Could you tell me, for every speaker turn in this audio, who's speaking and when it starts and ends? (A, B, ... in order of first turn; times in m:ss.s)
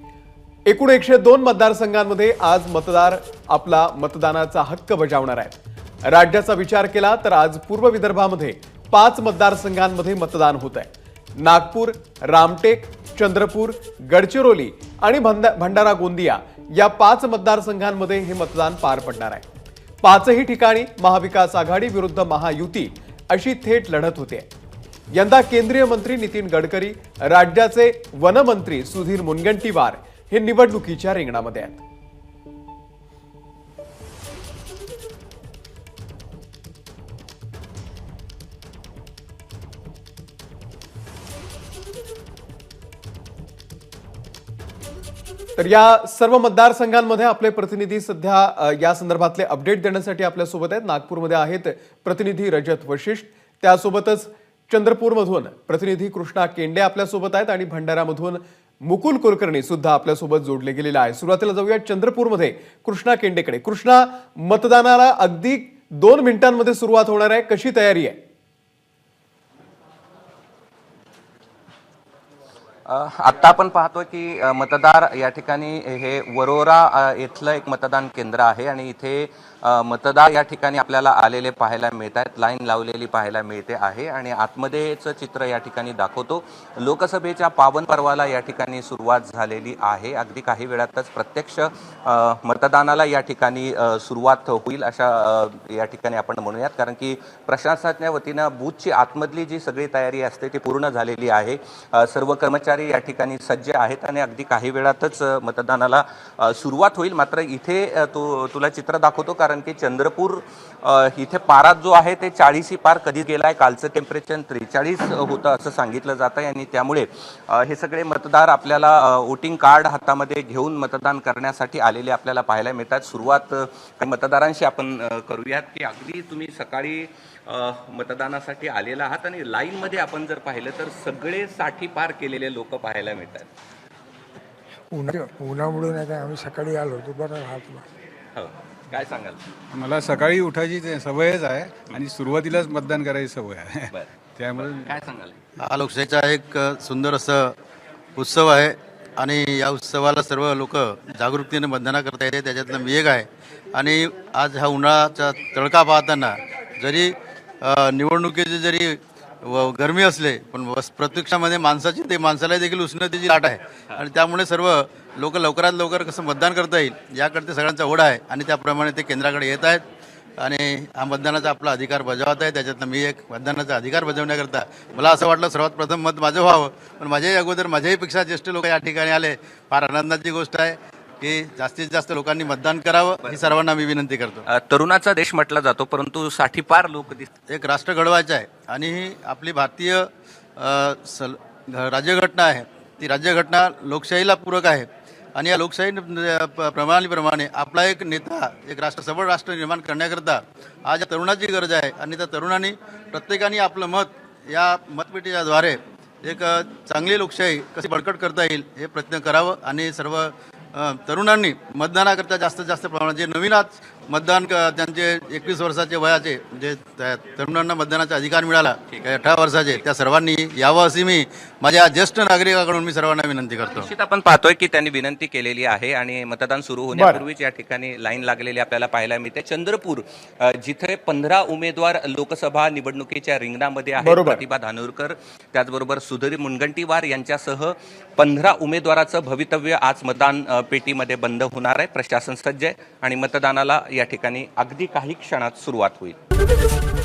0:00.7-0:05.5 A
0:06.1-0:19.4 A
0:20.0-0:24.5 A
0:25.1-0:31.8 A
0:45.6-1:08.2 A
1:12.9-2:13.5 B
2:14.9-2:17.8 C
2:18.3-2:19.4 B
2:19.7-2:24.9 D
2:23.9-2:25.4 B
2:25.6-2:27.5 E
2:28.2-2:49.8 E
2:50.4-3:04.4 E
3:04.5-3:07.3 B
3:07.5-3:43.9 E
3:43.7-4:06.2 B
3:46.9-3:47.2 A
3:54.0-3:54.4 A